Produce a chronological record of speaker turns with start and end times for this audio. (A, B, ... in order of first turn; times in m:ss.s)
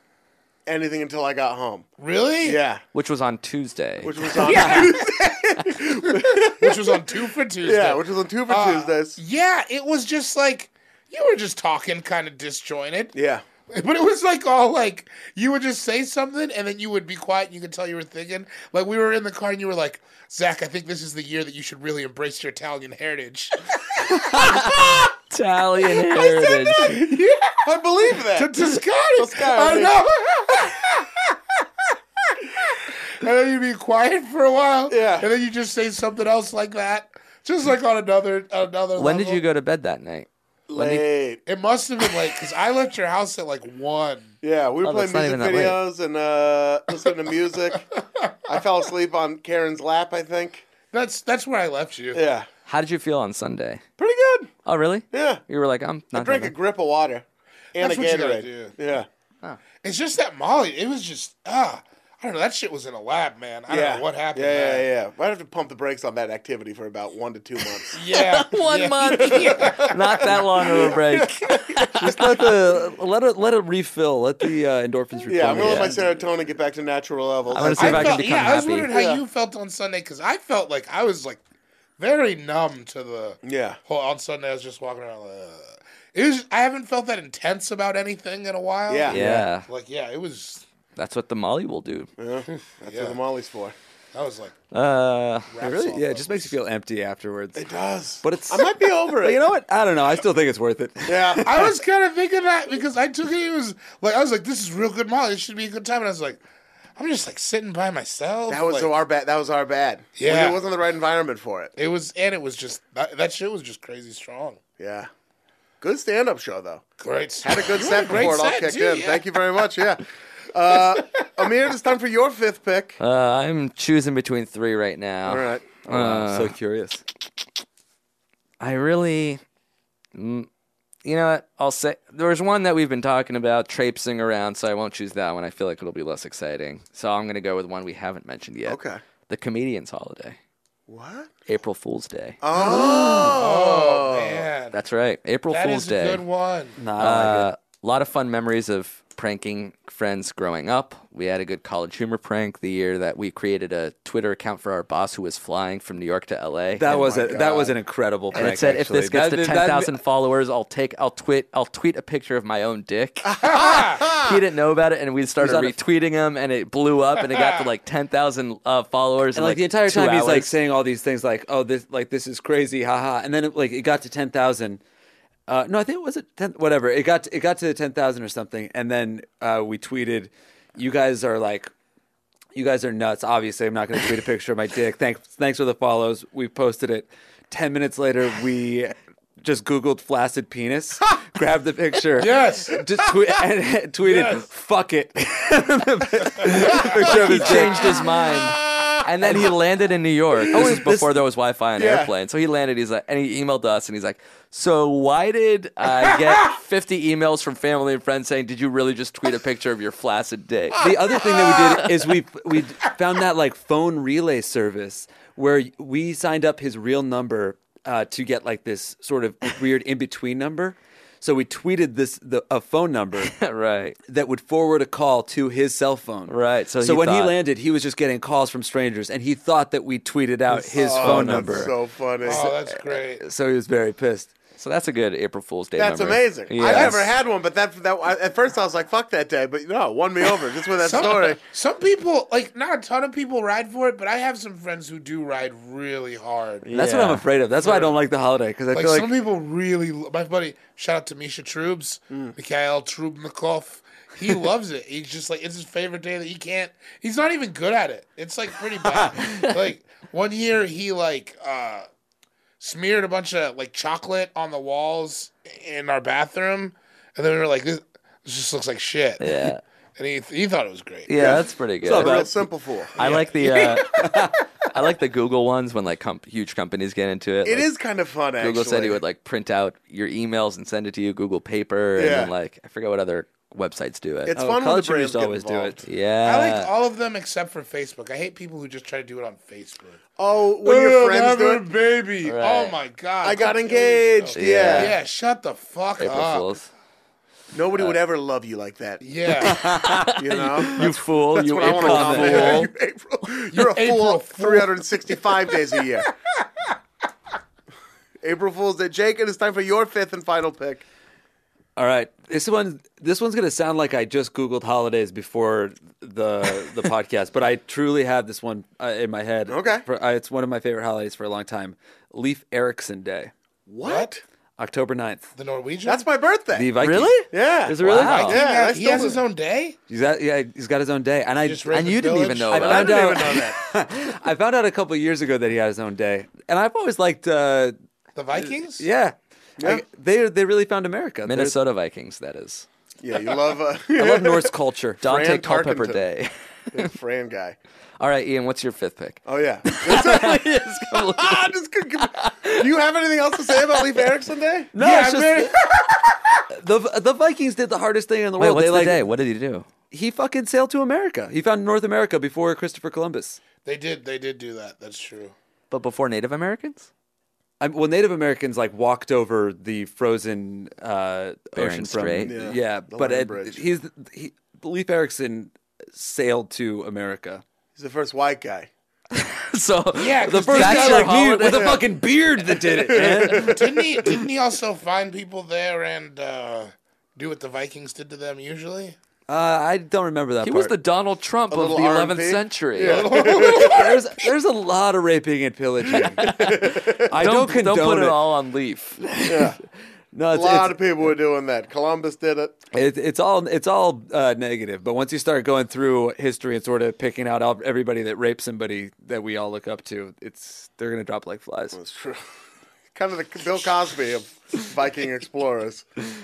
0:00.6-0:01.9 A
0:02.0-0:02.6 B
0:02.4-0:02.8 A
0:02.9-0:04.8 C
0:04.0-0:09.2 A
0:04.3-0:13.1 B
0:13.1-0:13.4 A
0:13.7-0:25.1 B
0:24.1-0:27.0 C
0:26.0-0:27.6 B
0:26.7-0:30.0 A
0:28.3-0:31.4 B
0:32.3-0:39.4 B
0:34.9-0:35.3 A
0:39.0-0:41.0 C
0:40.7-0:41.4 A
0:41.4-0:44.4 B
0:44.4-0:47.8 A
0:44.8-0:45.8 C
0:48.4-0:50.6 A
0:50.9-0:52.2 B
0:52.1-0:52.5 A
0:52.7-0:53.8 C
0:54.0-0:54.5 A
0:54.6-0:56.5 C
0:55.1-0:55.4 A
0:56.1-0:59.1 A
0:57.8-0:58.7 B
0:59.8-1:04.8 B
1:03.7-1:08.0 A
1:07.9-1:10.3 B
1:08.0-1:12.1 C
1:09.0-1:12.5 A
1:12.0-1:16.0 D
1:15.3-1:18.2 A
1:15.5-1:16.0 C
1:17.5-1:18.9 C
1:17.8-1:21.4 B
1:18.9-1:19.2 A
1:22.0-1:30.6 B
1:23.4-1:23.8 A
1:28.9-1:29.2 A
1:29.1-1:29.7 C
1:29.1-1:29.5 D
1:31.0-1:32.1 C
1:32.2-1:33.7 A
1:32.7-1:33.2 B
1:34.1-1:34.6 B
1:34.7-1:35.6 C
1:35.5-1:36.5 B
1:35.6-1:37.6 D
1:37.5-1:39.4 A
1:38.2-1:41.7 D
1:41.0-1:41.5 A
1:41.4-1:46.4 B
1:47.0-1:48.9 B
1:48.5-1:51.7 A
1:50.2-1:50.6 B
1:51.8-1:54.6 B
1:54.8-1:55.1 A
1:55.8-1:56.8 A
1:57.0-1:59.4 B
1:57.4-2:03.0 A
2:03.0-2:06.5 C
2:05.2-2:05.7 A
2:05.8-2:07.0 D
2:08.6-2:09.4 C
2:10.1-2:10.5 C
2:11.0-2:20.4 C
2:18.7-2:19.0 A
2:20.9-2:21.3 A
2:21.4-2:22.4 C
2:22.4-2:24.5 A
2:22.5-2:24.8 B
2:24.7-2:26.2 C
2:25.5-2:26.8 B
2:26.8-2:27.5 D
2:27.0-2:37.0 C
2:36.8-2:40.0 D
2:36.9-2:37.7 A
2:38.3-2:43.4 C
2:43.2-2:44.2 A
2:43.4-2:44.2 B
2:44.0-2:50.5 C
2:47.3-2:47.7 B
2:49.3-2:54.8 D
2:55.5-3:01.7 D
3:02.5-3:18.0 D
3:12.2-3:13.1 B
3:14.0-3:14.4 B
3:16.4-3:18.1 B
3:17.0-3:30.8 C
3:20.5-3:20.8 A
3:20.5-3:21.1 D
3:21.8-3:22.1 A
3:30.8-3:43.3 D
3:43.2-3:44.0 C
3:44.1-3:51.7 D
3:46.3-3:47.3 C
3:50.7-3:52.5 A
3:51.1-3:51.6 C
3:52.2-3:53.2 B
3:52.3-3:54.3 D
3:54.6-3:57.0 C
3:55.8-4:01.4 A
3:56.6-3:57.0 B
4:00.8-4:06.6 B
4:06.6-4:07.2 C
4:06.7-4:09.1 D
4:07.6-4:08.0 B
4:08.7-4:21.8 B
4:12.1-4:12.3 A
4:22.6-4:31.4 B
4:29.2-4:29.6 C
4:31.1-4:32.1 C
4:31.2-4:32.9 A
4:31.8-4:32.4 D
4:33.0-4:34.1 B
4:33.0-4:34.0 C
4:33.7-4:34.4 D
4:34.7-4:37.7 C
4:37.4-4:39.0 A
4:38.4-4:44.4 C
4:42.0-4:42.3 A
4:44.2-4:45.8 A
4:44.3-4:45.8 D
4:45.8-4:46.7 C
4:46.2-4:50.0 B
4:50.2-4:51.7 A
4:50.6-4:56.5 B
4:52.2-4:52.8 C
4:53.2-4:54.9 A
4:54.4-4:54.9 C
4:56.0-4:56.7 C
4:57.5-4:59.0 A
4:59.0-4:59.7 B
4:59.4-5:00.9 D
4:59.6-5:02.7 C
5:00.1-5:06.1 A
5:01.5-5:02.6 D
5:02.2-5:02.6 B
5:03.5-5:05.6 B
5:08.2-5:10.8 A
5:11.8-5:23.3 D
5:19.5-5:19.8 A
5:23.7-5:24.2 A
5:23.8-5:24.1 B
5:24.6-5:25.2 D
5:25.4-5:26.0 B
5:25.8-5:29.2 A
5:26.5-5:28.4 D
5:26.8-5:27.3 C
5:27.8-5:28.3 C
5:27.8-5:29.8 B
5:29.9-5:31.8 D
5:31.4-5:32.6 B
5:31.7-5:33.0 C
5:32.5-5:37.8 D
5:32.5-5:33.6 A
5:38.1-5:38.8 B
5:38.4-5:41.6 D
5:41.2-5:42.6 C
5:43.0-5:46.0 A
5:43.9-5:45.0 D
5:45.0-5:46.9 C
5:46.7-5:47.6 A
5:48.0-5:52.6 C
5:49.2-5:54.7 A
5:54.7-5:55.5 D
5:54.8-5:56.1 B
5:56.5-5:59.0 D
5:58.4-5:59.7 C
5:59.9-6:03.4 D
6:03.6-6:05.3 B
6:05.7-6:06.9 C
6:07.6-6:17.4 D
6:11.5-6:12.3 C
6:12.2-6:13.6 A
6:17.8-6:18.7 A
6:19.1-6:21.8 C
6:20.0-6:21.2 B
6:20.2-6:23.6 D
6:21.5-6:21.8 A
6:22.8-6:24.2 A
6:23.3-6:29.0 B
6:29.3-6:30.7 D
6:30.4-6:33.1 C
6:31.5-6:34.0 A
6:32.8-6:33.9 B
6:33.3-6:36.2 D
6:35.9-6:37.1 A
6:36.2-6:39.0 C
6:36.9-6:38.2 D
6:39.0-6:39.6 D
6:39.2-6:39.6 A
6:40.1-6:40.8 D
6:40.3-6:42.6 A
6:42.7-6:51.8 D
6:51.7-6:52.2 A
6:52.9-6:55.9 A